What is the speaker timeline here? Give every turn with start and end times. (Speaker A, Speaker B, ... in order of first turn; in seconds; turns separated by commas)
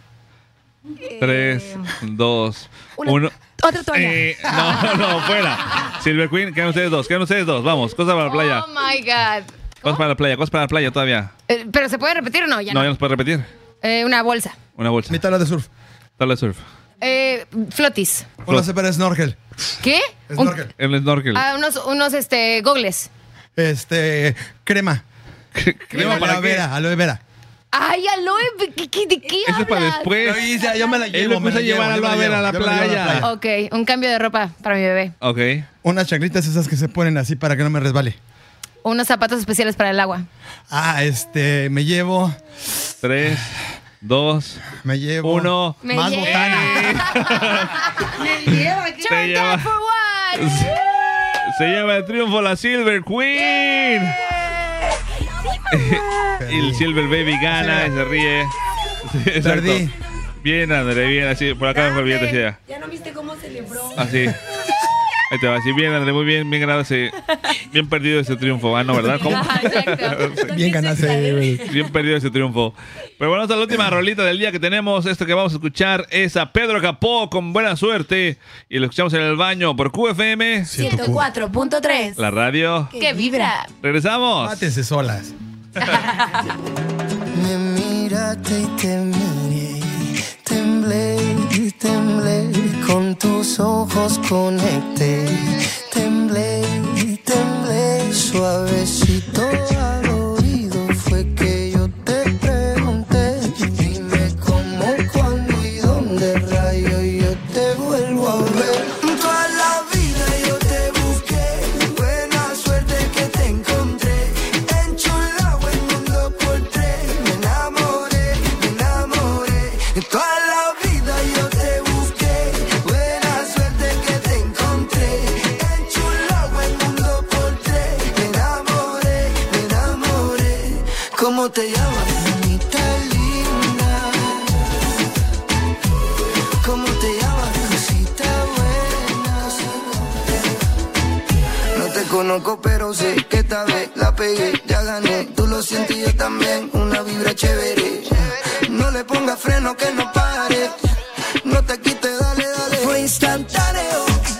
Speaker A: 1.1-1.9, Speaker B: 1.2-3.4, Speaker A: 3.0-4.3, Speaker B: 3.9-8.7, Speaker C: 8.2-10.0, Speaker B: 9.8-11.3, Speaker C: 11.5-12.9, Speaker B: 12.7-13.5, Speaker C: 13.8-14.6, Speaker B: 14.8-15.2, Speaker D: 15.1-15.7, Speaker B: 16.2-16.6, Speaker C: 17.0-18.4, Speaker D: 18.4-19.4, Speaker C: 19.8-20.6, Speaker D: 20.3-20.7, Speaker B: 20.8-21.4, Speaker C: 21.3-23.1, Speaker D: 23.6-25.0, Speaker B: 25.5-26.6, Speaker D: 25.9-27.2, Speaker C: 27.7-30.3, Speaker B: 29.4-30.4, Speaker D: 30.2-33.3, Speaker B: 31.1-33.2, Speaker C: 33.2-35.1, Speaker B: 35.2-35.6, Speaker D: 35.8-38.2, Speaker C: 38.8-40.3, Speaker D: 40.7-42.4, Speaker B: 43.0-44.6, Speaker D: 44.8-47.1, Speaker B: 45.2-47.8, Speaker C: 45.8-48.2, Speaker A: 48.2-49.0, Speaker B: 48.5-49.7, Speaker C: 49.0-50.7, Speaker B: 50.3-50.8, Speaker B: 51.4-54.2, Speaker B: 55.7-59.9, Speaker D: 56.4-56.9, Speaker D: 57.5-57.9, Speaker D: 59.4-59.9, Speaker B: 60.4-62.6, Speaker C: 61.7-62.4, Speaker A: 62.6-64.1, Speaker B: 64.0-64.3, Speaker D: 64.0-64.3, Speaker B: 65.3-70.4, Speaker C: 69.2-70.5, Speaker D: 70.4-71.7, Speaker A: 70.5-71.6, Speaker B: 71.7-80.7, Speaker D: 80.7-81.3, Speaker A: 80.7-82.2, Speaker C: 80.8-82.1, Speaker B: 82.2-82.9, Speaker A: 82.9-83.5, Speaker C: 83.0-83.7, Speaker B: 83.8-84.6, Speaker D: 84.4-85.3, Speaker C: 85.9-86.4, Speaker E: 87.3-134.6, Speaker E: 136.6-140.5, Speaker E: 141.7-154.2